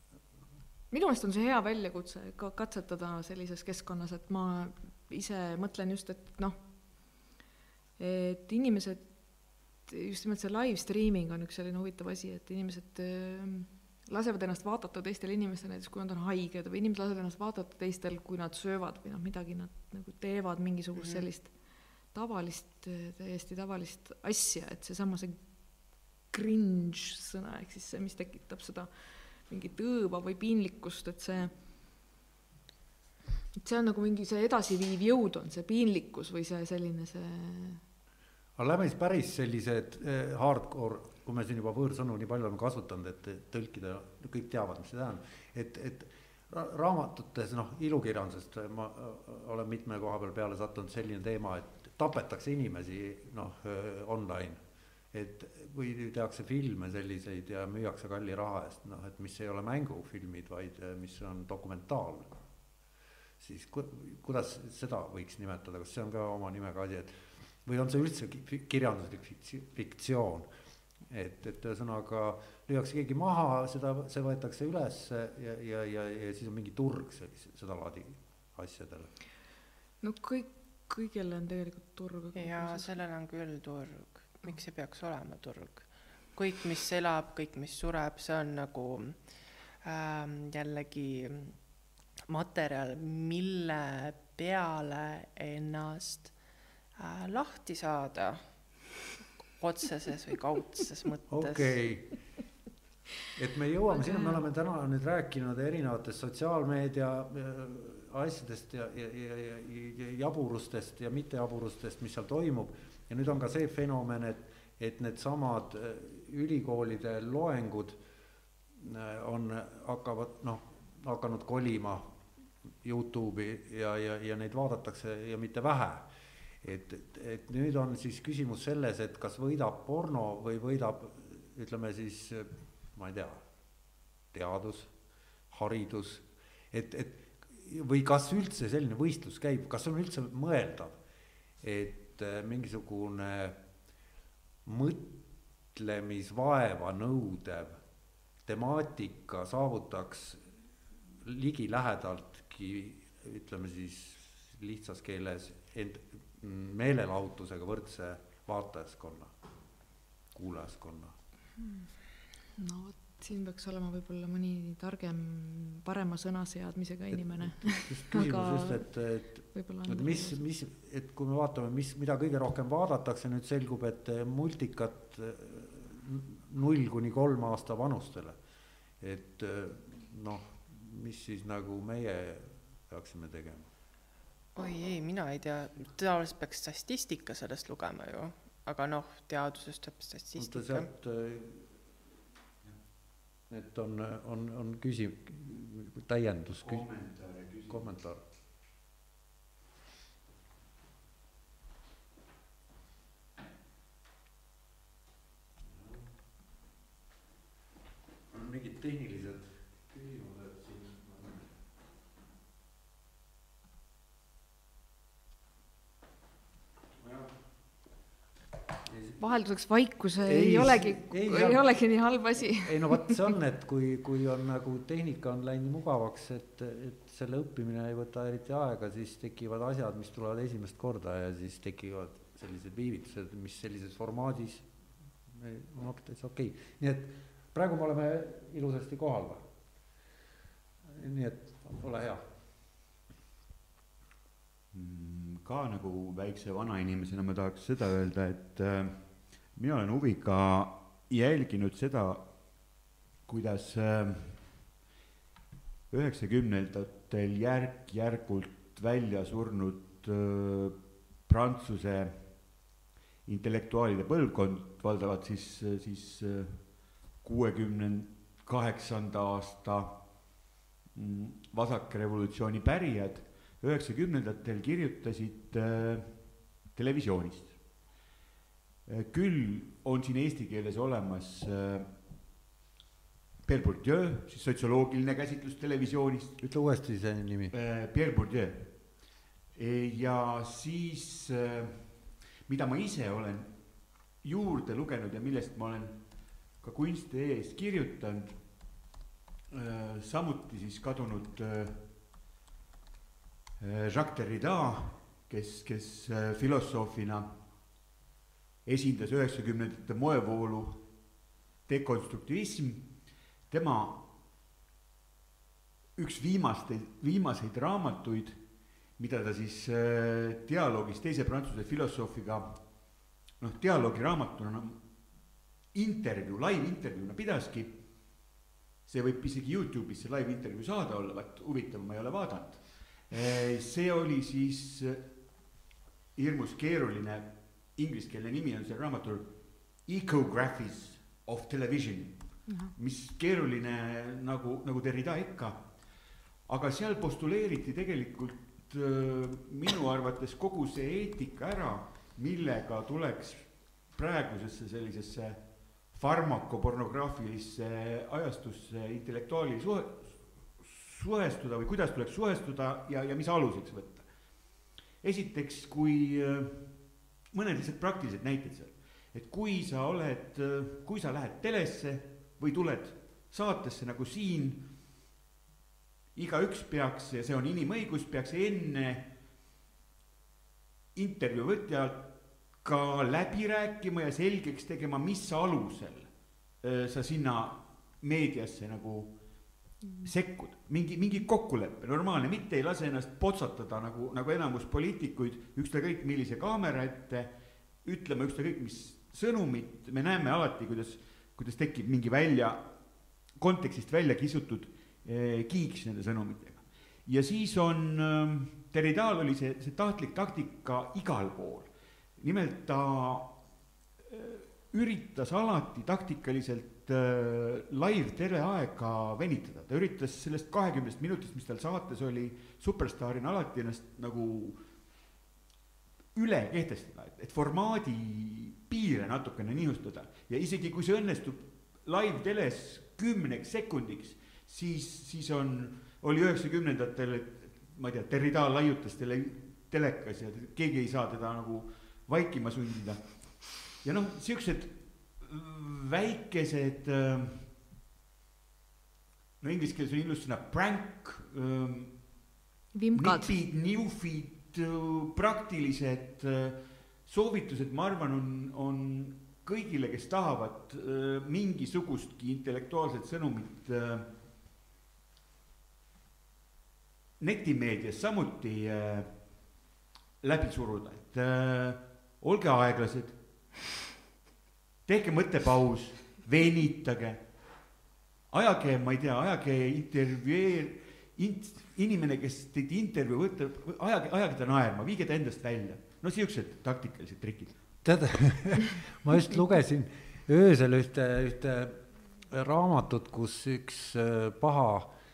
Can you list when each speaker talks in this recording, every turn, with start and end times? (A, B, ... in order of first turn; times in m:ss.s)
0:00.9-0:06.6 A
0:08.0-0:09.1 A
0:09.8-0:21.5 A
0:21.0-0:21.2 B
0:22.1-0:25.4 A
0:26.3-0:31.5 A
0:33.6-0:37.8 A
0:38.6-1:02.4 C
1:03.4-1:10.5 C
1:11.1-1:19.1 C
1:20.0-1:22.9 A
1:22.4-1:29.2 B
1:29.8-1:31.6 B
1:32.3-1:36.3 B
1:37.0-1:39.0 B
1:39.6-1:41.8 B
1:41.3-1:42.2 C
1:43.3-1:58.0 C
1:58.8-2:02.2 C
2:02.8-2:06.1 C
2:06.6-2:13.4 C
2:14.3-2:14.9 C
2:15.5-2:21.0 C
2:21.6-2:23.6 C
2:24.6-2:27.8 C
2:28.4-2:30.4 C
2:31.2-2:39.3 C
2:40.3-2:41.2 C
2:41.6-2:41.9 A
2:42.6-2:50.4 A
2:47.1-2:58.4 C
2:59.0-3:03.7 C
3:04.6-3:10.9 B
3:10.4-3:11.7 C
3:13.5-3:16.9 C
3:16.5-3:17.9 D
3:17.6-3:18.2 C
3:25.6-3:26.1 C
3:28.3-3:31.5 C
3:37.0-3:37.3 C
3:38.8-3:39.2 C
3:39.2-3:43.2 A
3:40.2-3:54.7 C
3:55.3-3:59.4 C
4:00.8-4:02.2 C
4:04.7-4:14.5 D
4:15.9-4:22.7 D
4:23.2-4:30.3 D
4:30.9-4:37.6 D
4:38.8-4:42.0 D
4:43.4-4:46.4 D
4:46.4-4:47.5 C
4:47.5-4:58.8 D
4:59.5-5:01.9 D
5:03.6-5:07.4 D
5:08.6-5:10.9 D
5:11.6-5:14.1 D
5:16.0-5:24.9 D
5:25.7-5:28.3 D
5:28.8-5:35.2 D
5:36.1-5:45.8 D
5:42.5-5:42.7 A
5:46.4-6:04.1 D
6:05.0-6:14.7 D
6:16.1-6:19.1 D
6:20.9-6:29.2 D
6:29.8-6:30.1 A
6:30.0-6:53.4 D
6:54.0-7:04.7 D
7:06.1-7:27.6 D
7:29.4-7:32.3 D
7:32.7-7:33.3 A
7:32.9-7:44.1 D
7:47.2-7:49.6 D
7:50.2-7:53.2 D
7:54.8-7:57.3 D
7:58.3-8:07.7 D
8:07.8-8:14.9 C